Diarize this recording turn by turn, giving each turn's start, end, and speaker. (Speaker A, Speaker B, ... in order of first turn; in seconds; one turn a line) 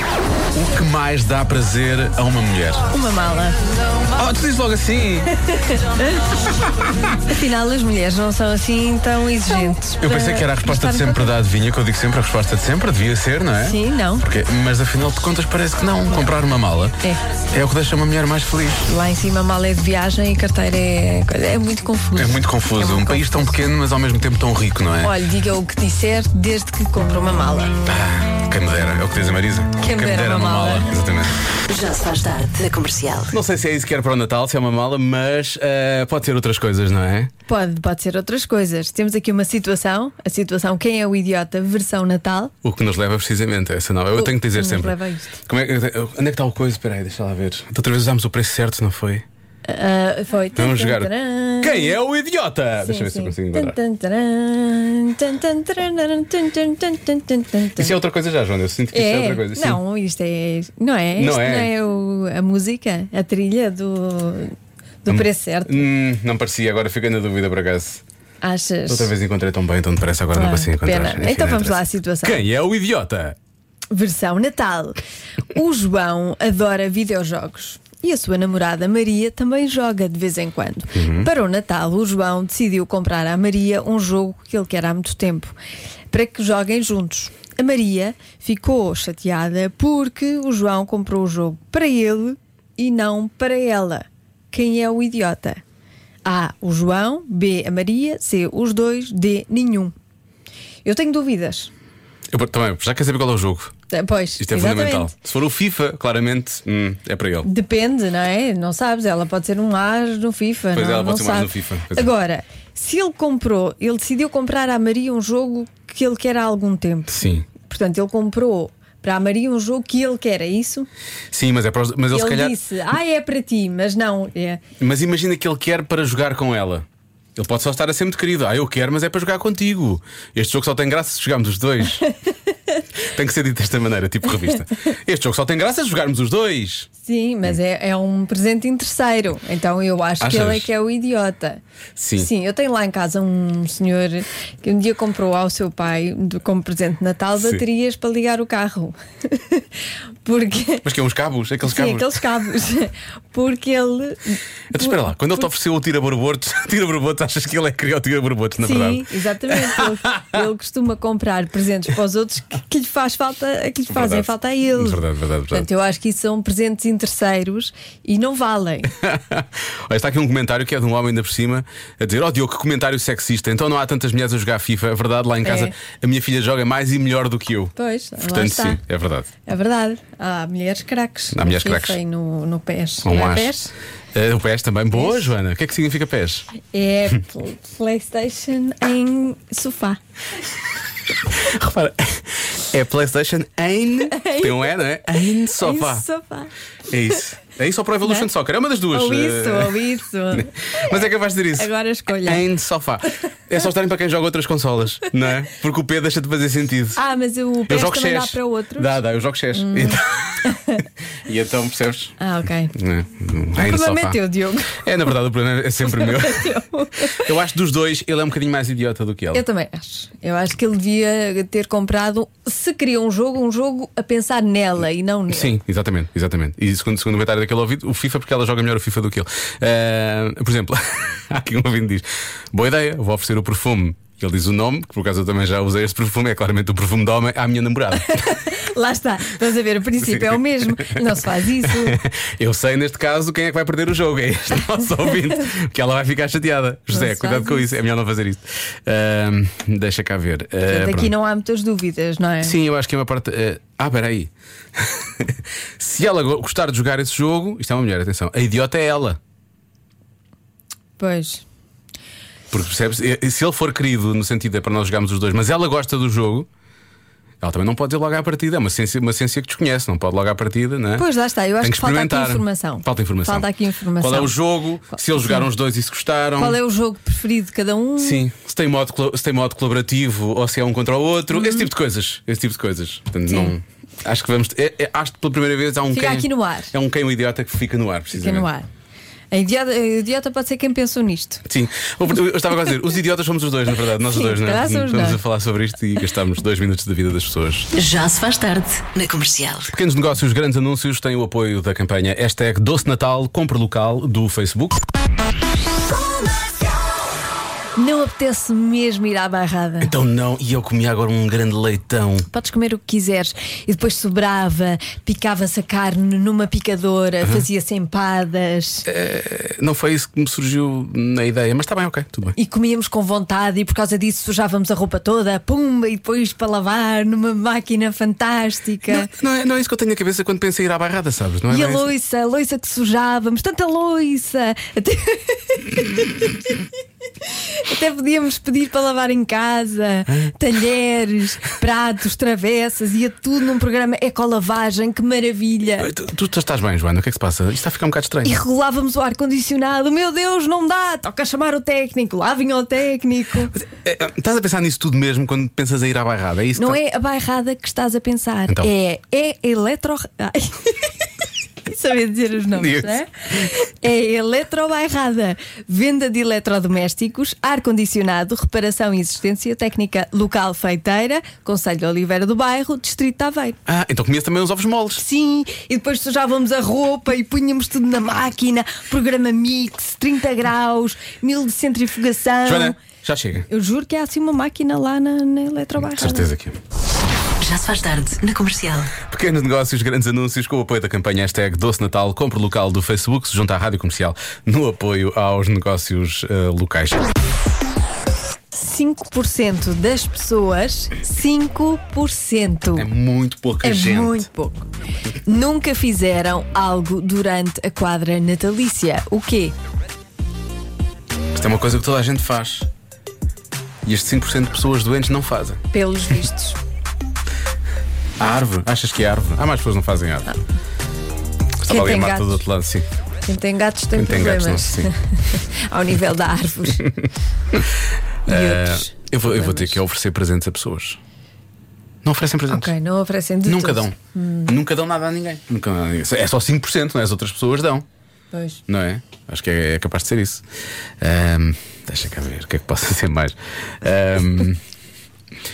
Speaker A: 0.5-2.9
Speaker B: 2.9-3.6
Speaker A: 4.1-5.3
Speaker B: 5.5-6.2
Speaker B: 7.2-11.3
Speaker A: 10.0-18.8
Speaker B: 13.6-14.2
Speaker B: 18.9-23.5
Speaker A: 22.1-25.1
Speaker B: 25.0-27.7
Speaker A: 27.9-31.4
Speaker B: 29.8-30.9
Speaker C: 31.7-33.4
Speaker A: 33.3-37.3
Speaker B: 37.5-42.5
Speaker A: 42.6-49.2
Speaker B: 44.1-45.4
Speaker B: 49.6-51.9
Speaker A: 50.5-53.8
Speaker B: 52.8-57.9
Speaker A: 57.8-59.8
Speaker B: 58.9-65.9
Speaker A: 61.1-61.7
Speaker A: 65.1-68.0
Speaker B: 68.4-69.1
Speaker A: 68.9-73.3
Speaker B: 70.3-72.4
Speaker B: 73.9-85.5
Speaker A: 80.9-81.3
Speaker B: 86.1-95.6
Speaker B: 96.2-99.9
Speaker B: 100.8-101.7
Speaker A: 102.3-103.8
Speaker B: 103.9-105.1
Speaker A: 104.4-107.5
Speaker B: 107.4-120.9
Speaker A: 110.7-112.1
Speaker A: 117.1-117.5
Speaker A: 121.3-122.5
Speaker B: 122.1-124.6
Speaker A: 124.8-126.8
Speaker A: 127.3-132.0
Speaker A: 133.1-136.9
Speaker B: 137.0-141.6
Speaker A: 140.2-140.7
Speaker A: 141.9-142.3
Speaker B: 142.2-150.8
Speaker A: 150.8-152.2
Speaker B: 151.6-155.2
Speaker A: 154.7-160.4
Speaker B: 158.6-168.9
Speaker A: 163.9-165.7
Speaker A: 169.0-177.7
Speaker B: 175.4-175.7
Speaker B: 177.8-178.8
Speaker A: 178.3-179.3
Speaker B: 179.4-183.7
Speaker A: 181.3-182.0
Speaker A: 183.0-183.5
Speaker A: 184.1-186.4
Speaker B: 184.9-185.3
Speaker B: 186.6-190.0
Speaker A: 191.3-196.0
Speaker B: 194.1-194.8
Speaker B: 195.6-196.5
Speaker A: 196.9-199.8
Speaker B: 198.9-201.0
Speaker A: 200.3-207.0
Speaker B: 201.6-202.4
Speaker B: 206.9-209.0
Speaker A: 207.7-210.6
Speaker B: 209.5-210.8
Speaker A: 211.2-212.2
Speaker B: 212.2-212.7
Speaker A: 212.7-214.2
Speaker B: 213.6-214.9
Speaker A: 214.8-216.6
Speaker B: 215.8-217.3
Speaker A: 217.1-219.4
Speaker B: 219.3-225.5
Speaker A: 225.3-238.4
Speaker B: 238.1-242.0
Speaker A: 240.0-241.0
Speaker A: 241.7-251.1
Speaker B: 246.9-247.7
Speaker B: 250.7-252.6
Speaker A: 252.4-259.2
Speaker B: 261.0-261.4
Speaker A: 262.5-266.5
Speaker A: 267.4-271.1
Speaker B: 271.0-274.4
Speaker A: 271.6-273.5
Speaker A: 274.0-276.6
Speaker B: 274.9-275.5
Speaker B: 276.4-278.2
Speaker A: 278.0-288.5
Speaker B: 281.3-281.7
Speaker B: 283.3-283.5
Speaker B: 285.9-286.7
Speaker B: 288.1-288.7
Speaker B: 289.3-291.4
Speaker A: 291.5-297.7
Speaker B: 294.0-295.2
Speaker C: 297.7-299.7
Speaker A: 299.7-304.8
Speaker B: 307.8-309.9
Speaker A: 309.8-312.3
Speaker B: 312.3-318.9
Speaker A: 318.9-322.4
Speaker B: 322.4-329.1
Speaker A: 328.9-331.9
Speaker B: 331.5-336.5
Speaker B: 337.2-345.9
Speaker A: 345.8-348.3
Speaker B: 348.2-353.5
Speaker A: 353.5-356.8
Speaker B: 356.6-361.0
Speaker B: 361.6-373.6
Speaker A: 362.6-362.9
Speaker A: 373.6-375.0
Speaker B: 375.0-382.8
Speaker A: 382.4-383.5
Speaker B: 383.5-386.3
Speaker A: 385.8-386.6
Speaker C: 387.4-388.9
Speaker A: 389.1-397.1
Speaker B: 398.5-402.9
Speaker A: 402.8-404.2
Speaker B: 403.6-404.7
Speaker B: 405.2-409.5
Speaker A: 411.3-412.7
Speaker A: 413.8-415.6
Speaker B: 415.7-416.6
Speaker A: 418.2-420.3
Speaker A: 421.6-422.9
Speaker B: 421.7-422.4
Speaker B: 423.2-426.9
Speaker A: 423.9-424.9
Speaker B: 428.3-429.8
Speaker A: 428.3-431.0
Speaker A: 432.0-432.7
Speaker B: 432.5-434.5
Speaker A: 433.4-437.8
Speaker B: 438.3-438.6
Speaker A: 438.7-440.4
Speaker A: 441.0-444.6